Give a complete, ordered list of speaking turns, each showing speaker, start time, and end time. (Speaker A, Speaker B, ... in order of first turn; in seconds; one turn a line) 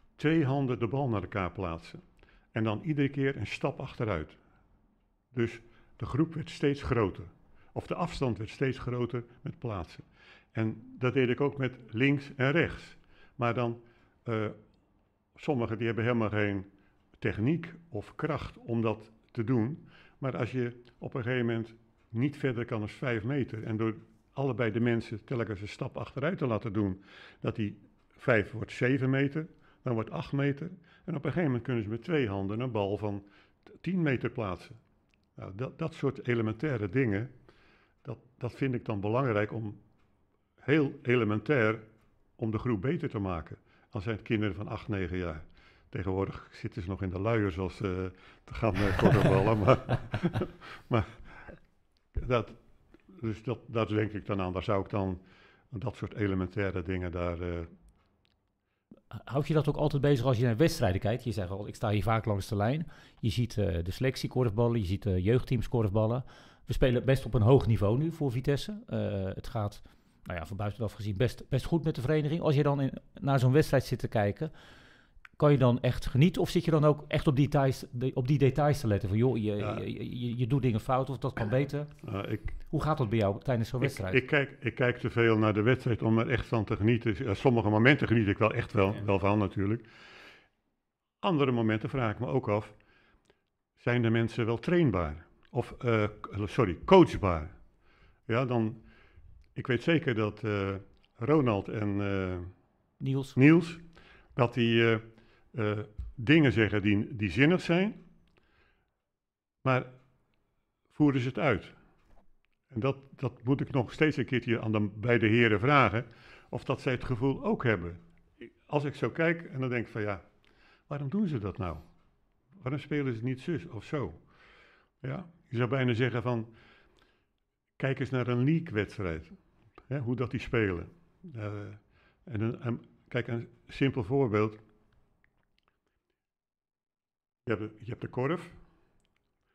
Speaker A: 0.2-2.0
Speaker A: 2.5-4.4
Speaker A: 5.3-14.6
Speaker A: 15.4-16.7
Speaker A: 17.2-33.2
Speaker A: 33.8-34.8
Speaker A: 35.4-37.3
Speaker A: 38.0-39.8
Speaker A: 40.6-51.5
Speaker A: 52.1-57.7
Speaker B: 59.1-74.5
Speaker B: 75.4-82.1
Speaker A: 79.6-79.8
Speaker A: 82.0-82.5
Speaker B: 82.7-84.2
Speaker A: 83.8-89.8
Speaker A: 91.2-92.7
Speaker A: 93.8-97.5
Speaker A: 98.3-98.8
Speaker A: 99.5-102.6
Speaker B: 103.0-103.3
Speaker A: 103.3-103.8
Speaker A: 104.3-108.0
Speaker A: 109.6-109.9
Speaker A: 110.9-111.8
Speaker A: 112.7-120.2
Speaker A: 120.9-121.8
Speaker A: 122.6-124.2
Speaker A: 125.0-126.5
Speaker A: 127.8-134.6
Speaker A: 137.4-138.6